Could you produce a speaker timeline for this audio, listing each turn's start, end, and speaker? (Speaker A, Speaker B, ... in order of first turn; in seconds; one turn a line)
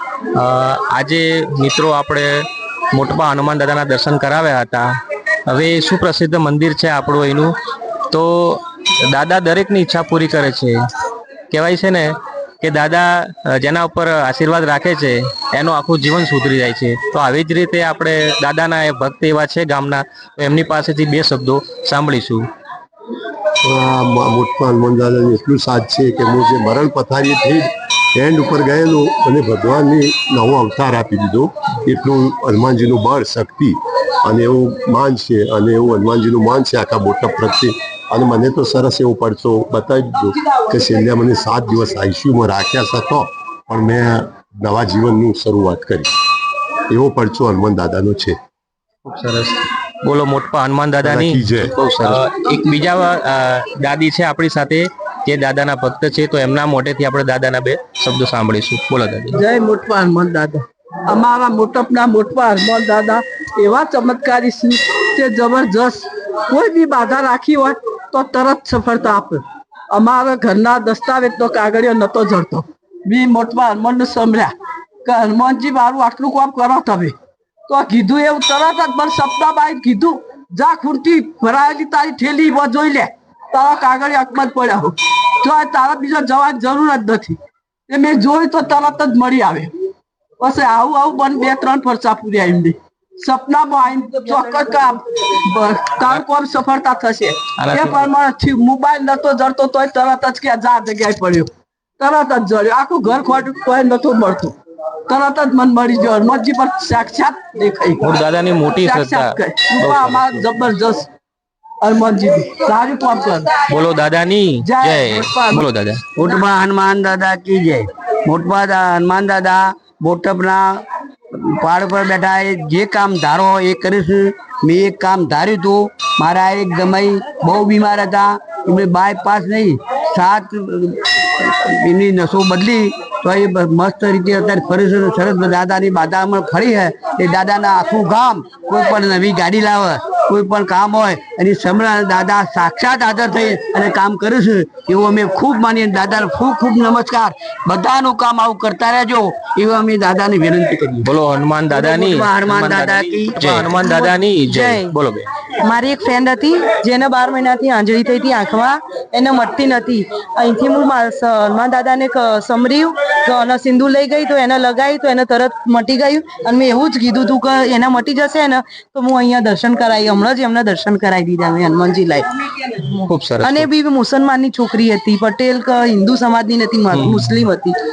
Speaker A: 0.3-4.9
Speaker A: 5.5-7.5
Speaker A: 8.1-10.8
Speaker A: 11.5-22.4
Speaker B: 23.6-46.1
Speaker B: 46.9-48.4
Speaker A: 49.0-59.4
Speaker B: 51.0-51.7
Speaker C: 59.3-74.5
Speaker C: 75.0-77.1
Speaker C: 77.7-87.4
Speaker C: 87.9-89.7
Speaker C: 90.4-104.5
Speaker A: 97.6-98.0
Speaker C: 105.1-108.1
Speaker A: 108.0-110.5
Speaker C: 108.7-111.1
Speaker C: 111.8-113.5
Speaker A: 113.7-116.0
Speaker C: 114.6-115.7
Speaker D: 116.2-151.1
Speaker A: 151.0-155.3
Speaker D: 151.7-153.4
Speaker E: 153.5-154.9
Speaker E: 155.6-177.8
Speaker A: 173.1-173.7
Speaker A: 176.9-177.4